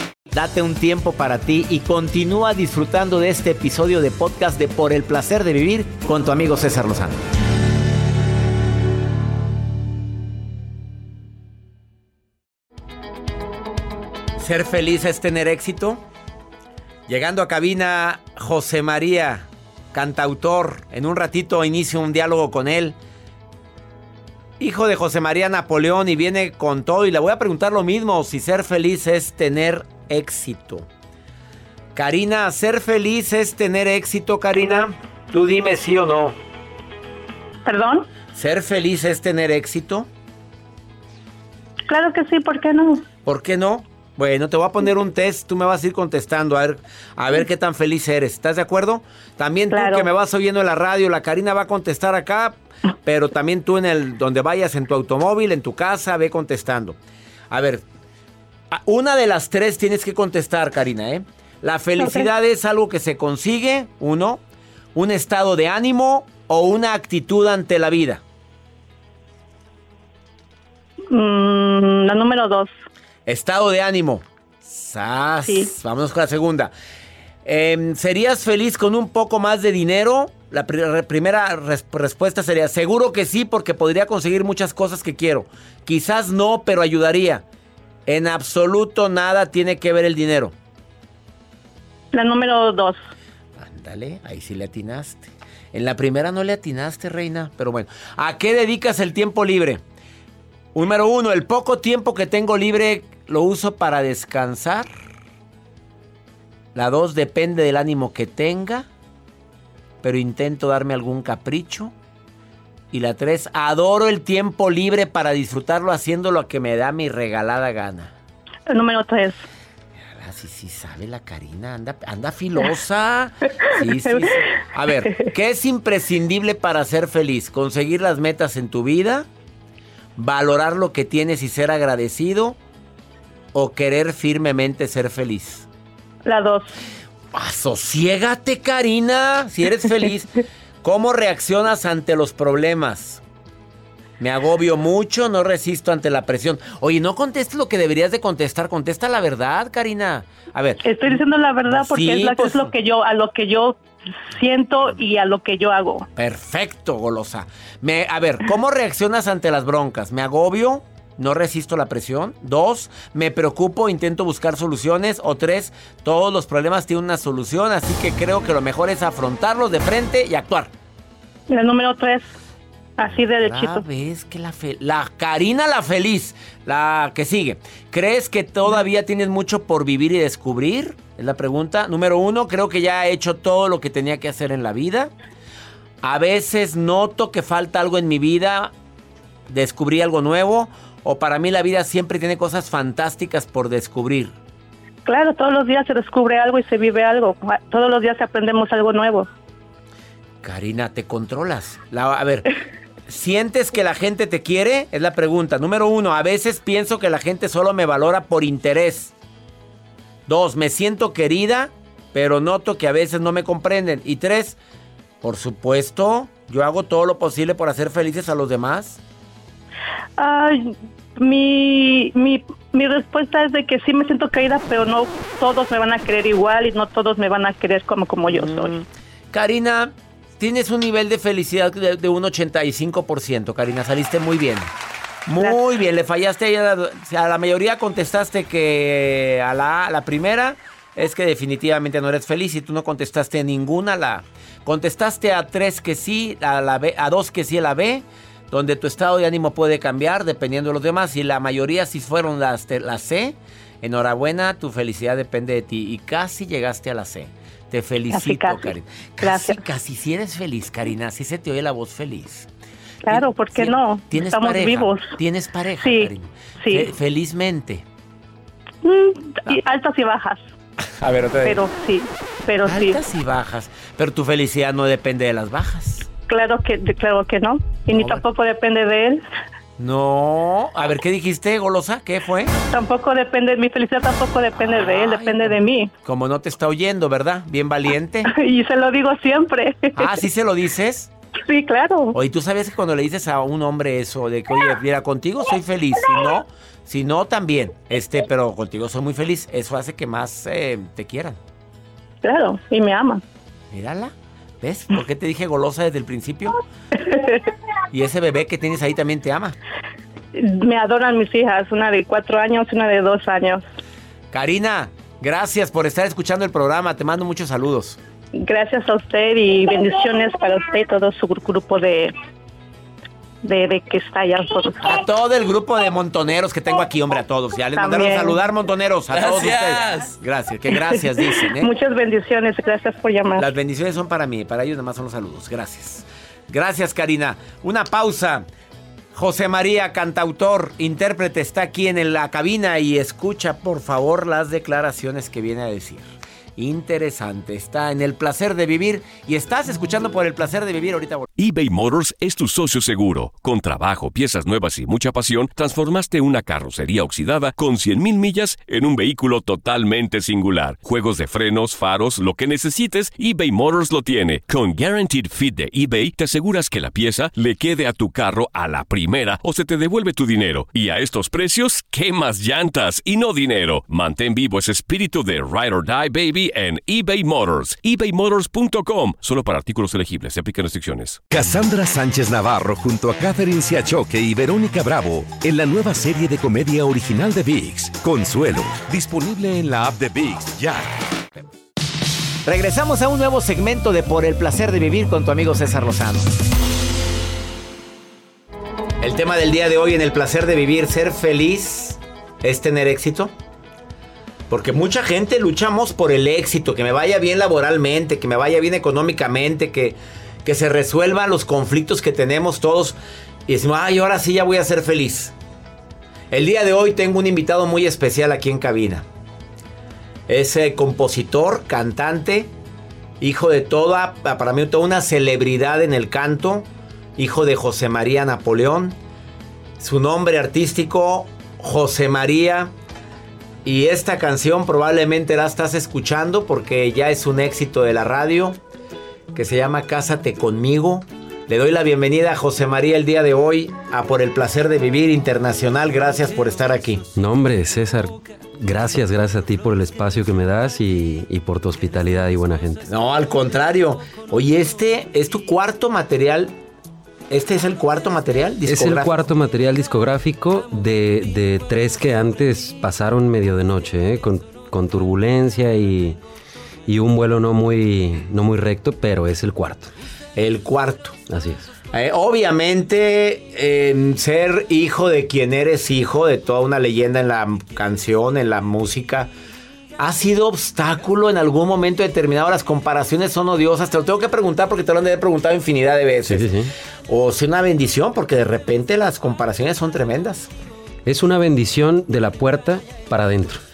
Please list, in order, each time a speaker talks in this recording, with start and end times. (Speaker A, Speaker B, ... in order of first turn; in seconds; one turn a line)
Speaker A: 0.3-7.3
Speaker A: 14.4-16.0
Speaker A: 17.1-23.0
Speaker A: 24.6-30.9
Speaker A: 31.9-36.4
Speaker B: 37.6-38.1
Speaker A: 38.3-40.1
Speaker B: 41.9-43.0
Speaker A: 43.2-57.0
Speaker B: 49.7-50.1
Speaker A: 57.5-57.9
Speaker A: 58.7-64.4
Speaker B: 62.0-62.3
Speaker A: 65.0-68.2
Speaker B: 71.1-72.7
Speaker A: 73.3-76.7
Speaker B: 75.5-75.7
Speaker A: 77.5-87.5
Speaker A: 88.1-90.5
Speaker B: 92.1-93.0
Speaker A: 93.6-99.8
Speaker A: 100.7-104.9
Speaker A: 106.8-108.9
Speaker A: 110.0-111.9
Speaker A: 112.9-118.1
Speaker B: 118.7-119.4
Speaker A: 120.0-129.3
Speaker B: 124.0-124.3
Speaker A: 130.2-132.6
Speaker A: 133.5-135.7
Speaker B: 136.2-136.7
Speaker A: 137.3-140.3
Speaker A: 140.8-143.2
Speaker A: 144.2-152.7
Speaker B: 150.8-153.8
Speaker B: 154.3-156.1
Speaker A: 156.2-170.7
Speaker B: 171.5-172.3
Speaker B: 173.0-173.8
Speaker A: 173.4-185.1
Speaker A: 186.0-188.7
Speaker A: 189.5-194.4
Speaker B: 195.1-199.3
Speaker A: 200.4-202.5
Speaker A: 203.1-209.1
Speaker A: 210.3-214.6
Speaker A: 215.2-219.0
Speaker B: 220.2-228.7
Speaker A: 228.3-234.7
Speaker A: 235.3-262.5
Speaker B: 258.1-259.6
Speaker B: 263.0-265.1
Speaker A: 263.1-267.9
Speaker B: 265.8-266.9
Speaker B: 268.8-270.4
Speaker A: 270.9-271.6
Speaker B: 271.4-273.0
Speaker A: 272.7-276.1
Speaker B: 276.3-279.2
Speaker A: 277.9-278.2
Speaker A: 279.8-282.5
Speaker B: 282.7-285.9
Speaker A: 284.6-288.3
Speaker B: 288.3-290.2
Speaker A: 290.0-291.1
Speaker B: 291.4-292.2
Speaker A: 292.1-301.4
Speaker B: 302.2-303.2
Speaker A: 303.7-306.6
Speaker B: 307.0-307.5
Speaker A: 307.9-309.6
Speaker B: 310.3-313.6
Speaker A: 314.3-318.0
Speaker B: 318.4-322.1
Speaker B: 323.4-325.0
Speaker A: 324.8-331.7
Speaker B: 327.8-328.4
Speaker B: 330.8-333.5
Speaker A: 333.4-338.5
Speaker A: 339.1-351.3
Speaker C: 351.4-381.2
Speaker D: 381.3-390.9
Speaker A: 392.4-396.4
Speaker A: 399.0-403.3
Speaker A: 404.5-413.0
Speaker A: 413.5-415.3
Speaker A: 416.3-419.1
Speaker A: 420.3-422.5
Speaker A: 423.2-429.0
Speaker A: 429.8-432.7
Speaker A: 433.6-438.6
Speaker A: 439.3-447.0
Speaker E: 447.1-452.9
Speaker A: 452.9-456.6
Speaker A: 457.3-459.1
Speaker E: 458.7-466.2
Speaker E: 466.9-469.9
Speaker A: 470.4-471.2
Speaker E: 471.3-471.7
Speaker A: 471.9-479.3
Speaker A: 480.0-486.5
Speaker E: 486.3-486.7
Speaker A: 487.1-490.5
Speaker E: 491.1-493.6